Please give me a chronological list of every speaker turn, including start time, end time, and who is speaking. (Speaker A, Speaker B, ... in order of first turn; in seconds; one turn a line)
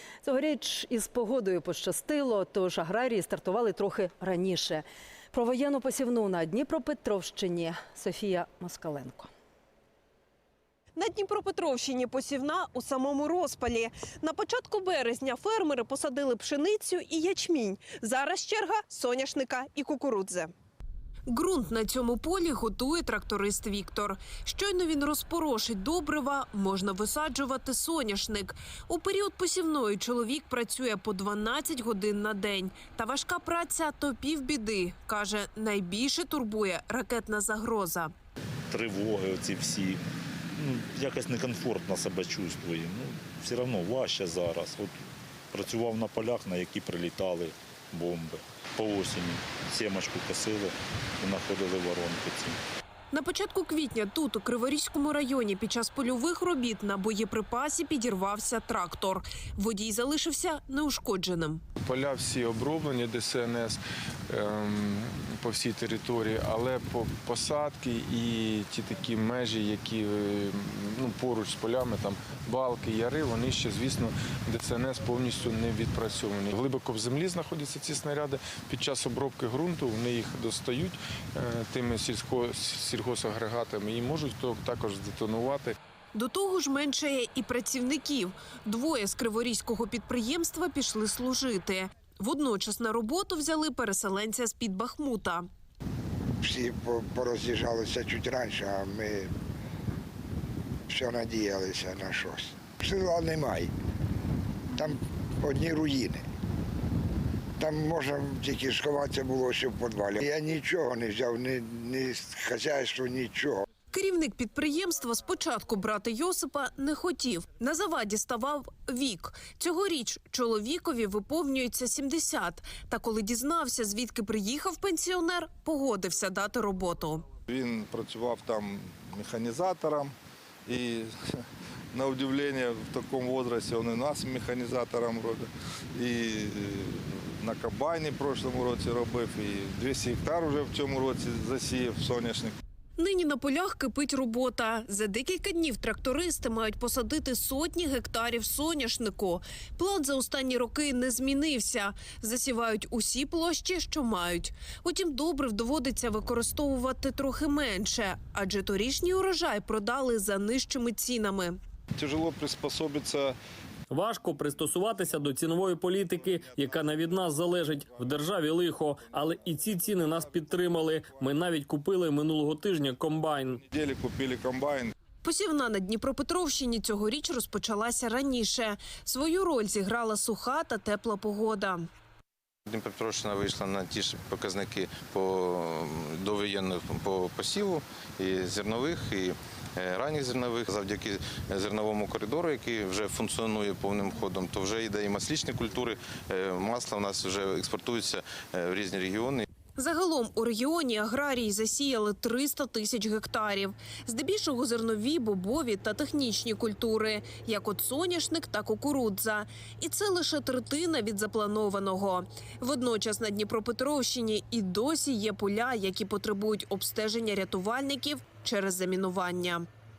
Speaker A: 0.2-9.3
Speaker B: 11.0-20.5
Speaker B: 21.3-38.1
Speaker C: 38.7-52.6
Speaker B: 53.1-61.6
Speaker D: 61.8-85.8
Speaker B: 86.1-95.5
Speaker E: 96.4-99.3
Speaker E: 100.9-103.7
Speaker E: 104.7-106.2
Speaker E: 107.6-113.7
Speaker B: 113.9-127.3
Speaker F: 127.5-130.1
Speaker F: 130.7-131.1
Speaker F: 131.9-142.6
Speaker B: 143.0-161.6
Speaker F: 162.0-163.3
Speaker G: 163.9-173.6
Speaker F: 165.7-168.3
Speaker F: 169.0-171.3
Speaker F: 173.6-174.9
Speaker B: 175.2-181.8
Speaker H: 182.7-199.5
Speaker B: 199.8-219.7